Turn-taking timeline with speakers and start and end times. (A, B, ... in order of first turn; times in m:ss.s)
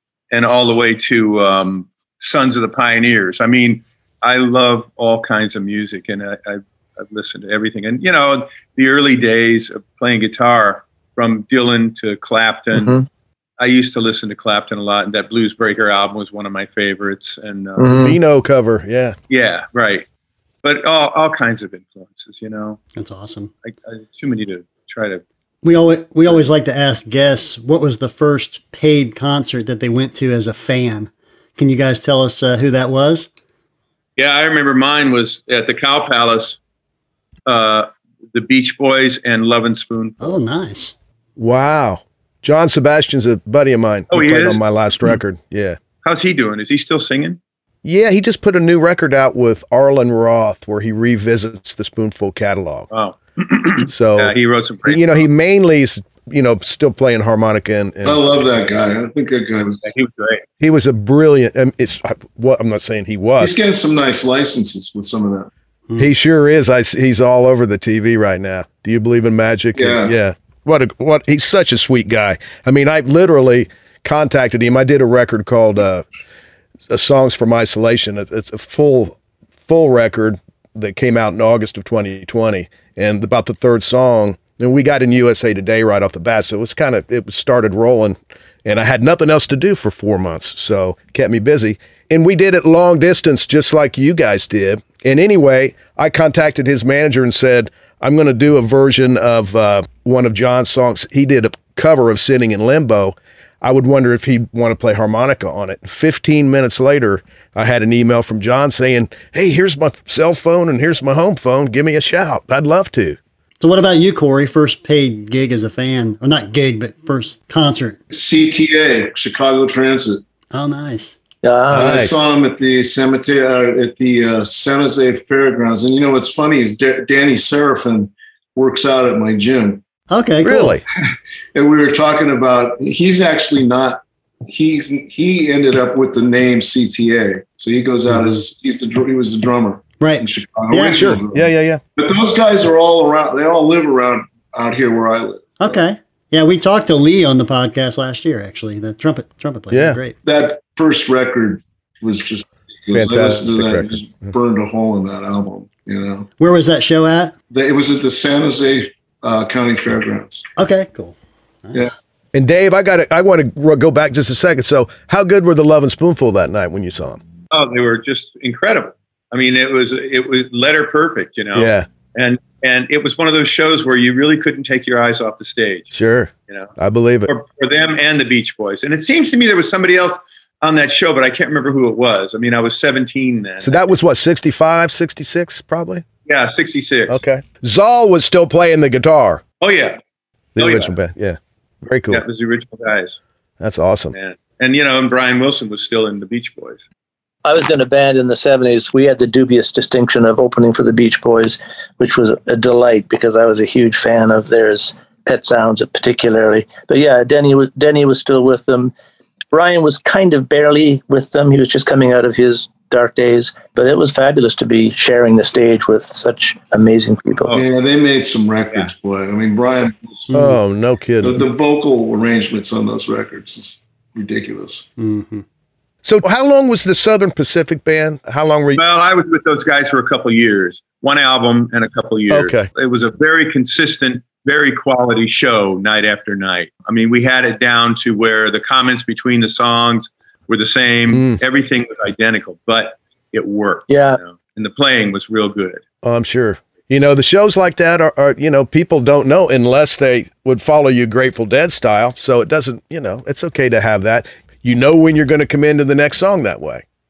0:00.3-0:13.0 A
0:12.7-0:13.1 B
0:13.6-0:18.0 A
0:17.8-0:18.2 B
0:18.0-0:19.2 C
0:19.3-0:20.1 A
0:20.6-0:22.8 A
0:23.0-0:23.5 D
0:23.6-0:25.2 A
0:25.6-0:33.3 D
0:34.2-0:36.6 A
0:37.5-0:40.3 A
0:40.2-0:41.0 D
0:41.4-0:45.8 C
0:44.1-0:44.6 A
0:46.0-0:47.4 A
0:47.8-0:52.9 C
0:52.9-0:55.3 A
0:53.9-0:58.2 C
0:58.0-0:59.8 E
0:59.8-1:00.4 A
1:00.6-1:03.6 C
1:03.4-1:05.5 E
1:06.0-1:16.0 C
1:09.8-1:10.2 E
1:16.9-1:53.2 C
1:53.6-1:58.0 D
1:58.1-2:00.2 E
2:00.5-2:01.2 D
2:01.4-2:02.0 B
2:01.7-2:02.3 C
2:01.7-2:09.8 E
2:10.1-2:10.8 D
2:10.4-2:10.8 C
2:11.6-2:25.8 E
2:20.0-2:21.1 D
2:20.8-2:21.8 C
2:25.6-2:30.2 D
2:29.7-2:30.0 C
2:30.2-2:36.3 E
2:32.9-2:34.1 C
2:36.4-2:37.4 D
2:37.5-2:40.5 E
2:40.6-2:41.9 D
2:42.3-2:47.2 C
2:47.5-2:55.9 A
2:51.6-2:51.9 C
2:55.9-2:57.3 C
2:57.3-3:03.8 A
3:03.6-3:06.0 C
3:06.3-3:07.2 A
3:07.1-3:09.4 C
3:09.6-3:10.0 A
3:10.6-3:12.2 C
3:10.6-3:10.9 A
3:12.1-3:13.2 A
3:13.6-3:14.2 C
3:14.1-3:16.8 A
3:17.4-3:28.9 B
3:29.5-3:37.6 B
3:37.5-3:40.6 E
3:40.3-3:41.4 C
3:41.2-3:44.9 E
3:45.0-3:45.4 D
3:46.0-3:48.8 C
3:48.8-4:05.8 A
3:52.3-3:52.7 C
4:01.1-4:01.4 C
4:03.9-4:04.2 B
4:06.0-4:16.8 C